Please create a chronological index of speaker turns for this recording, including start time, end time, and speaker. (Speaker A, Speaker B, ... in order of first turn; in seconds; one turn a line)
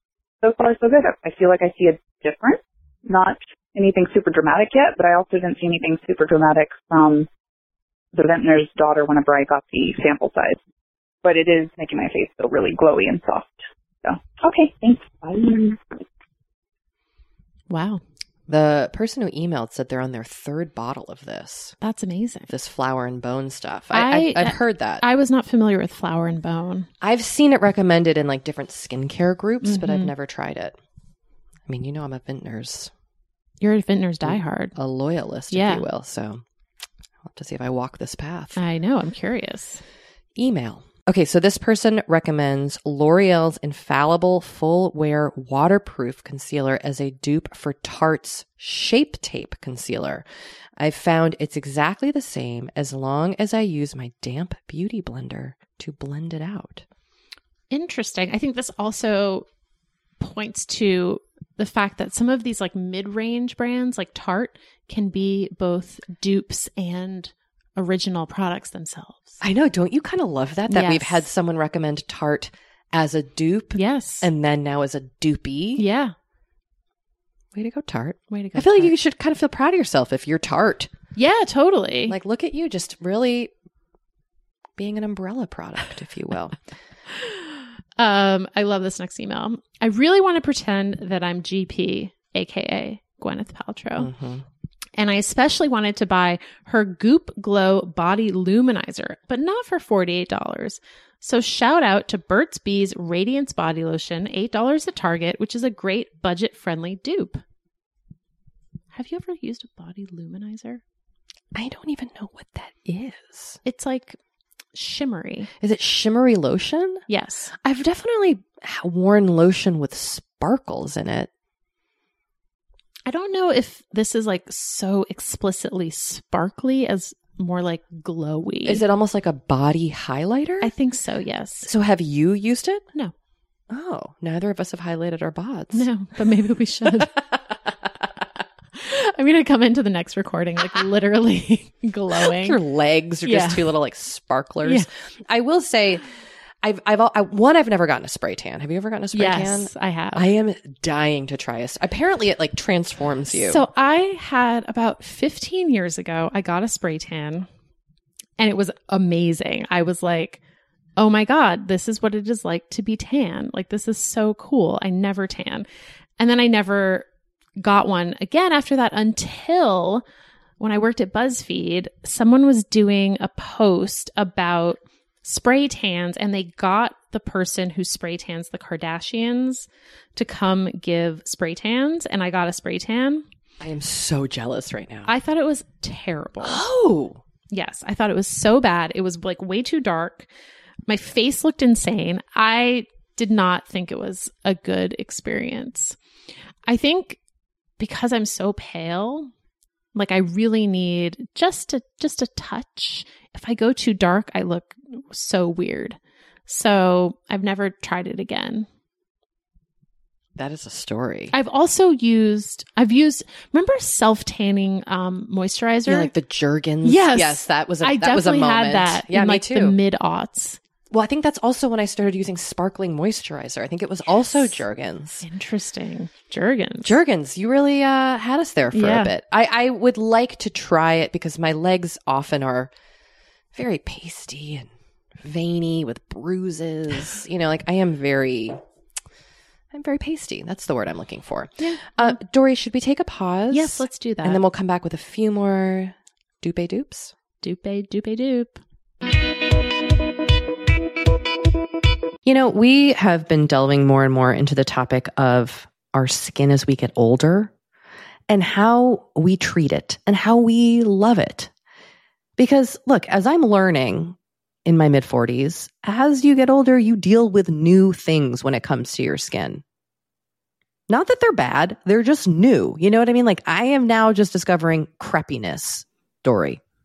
Speaker A: 0.4-7.3
Speaker A: 8.1-10.6
Speaker A: 11.2-15.8
Speaker B: 17.7-18.0
Speaker C: 18.5-21.7
Speaker B: 21.8-22.5
Speaker C: 22.5-25.0
Speaker B: 23.9-26.9
Speaker C: 27.0-30.8
Speaker B: 29.6-30.1
Speaker C: 31.7-32.9
Speaker B: 33.6-34.7
Speaker C: 34.2-36.4
Speaker B: 35.5-35.9
Speaker C: 37.2-38.6
Speaker B: 38.6-39.8
Speaker C: 40.4-50.2
Speaker C: 50.8-56.8
Speaker B: 57.7-59.5
Speaker B: 60.2-69.4
Speaker C: 69.4-75.8
Speaker B: 70.7-71.2
Speaker B: 73.7-74.3
Speaker B: 75.8-76.1
Speaker C: 77.5-80.9
Speaker B: 78.3-78.9
Speaker B: 81.2-82.2
Speaker C: 82.1-83.5
Speaker C: 84.8-86.6
Speaker B: 88.0-94.1
Speaker C: 94.0-94.4
Speaker B: 95.0-107.4
Speaker B: 108.9-110.8
Speaker C: 111.5-113.6
Speaker B: 113.6-114.2
Speaker B: 114.7-115.5
Speaker C: 115.6-121.3
Speaker B: 117.1-117.5
Speaker B: 123.0-128.8
Speaker C: 128.7-130.7
Speaker B: 130.6-131.7
Speaker C: 131.6-132.8
Speaker C: 133.7-135.9
Speaker B: 135.7-137.2
Speaker C: 136.8-137.4
Speaker B: 138.7-142.6
Speaker C: 142.1-146.1
Speaker B: 143.2-143.7
Speaker C: 146.6-153.6
Speaker B: 149.1-150.2
Speaker B: 153.3-157.5
Speaker B: 158.4-160.4
Speaker B: 161.0-165.7
Speaker B: 166.2-167.1
Speaker B: 167.6-170.0
Speaker B: 170.6-183.2
Speaker C: 183.6-185.1
Speaker B: 185.1-186.6
Speaker C: 186.4-187.2
Speaker B: 187.5-190.3
Speaker B: 190.9-196.0
Speaker B: 196.7-197.2
Speaker B: 197.8-199.3
Speaker B: 199.9-208.7
Speaker C: 210.3-211.3
Speaker B: 211.3-216.1
Speaker C: 215.8-219.8
Speaker B: 216.8-220.6
Speaker C: 220.9-225.2
Speaker B: 225.2-227.0
Speaker C: 226.8-232.7
Speaker B: 228.7-229.1
Speaker C: 233.5-234.7
Speaker C: 235.2-238.6
Speaker C: 239.7-247.1
Speaker B: 241.6-242.2
Speaker B: 243.5-244.4
Speaker B: 247.4-248.6
Speaker C: 252.2-257.5
Speaker C: 258.3-261.5
Speaker C: 262.4-269.6
Speaker C: 270.9-276.6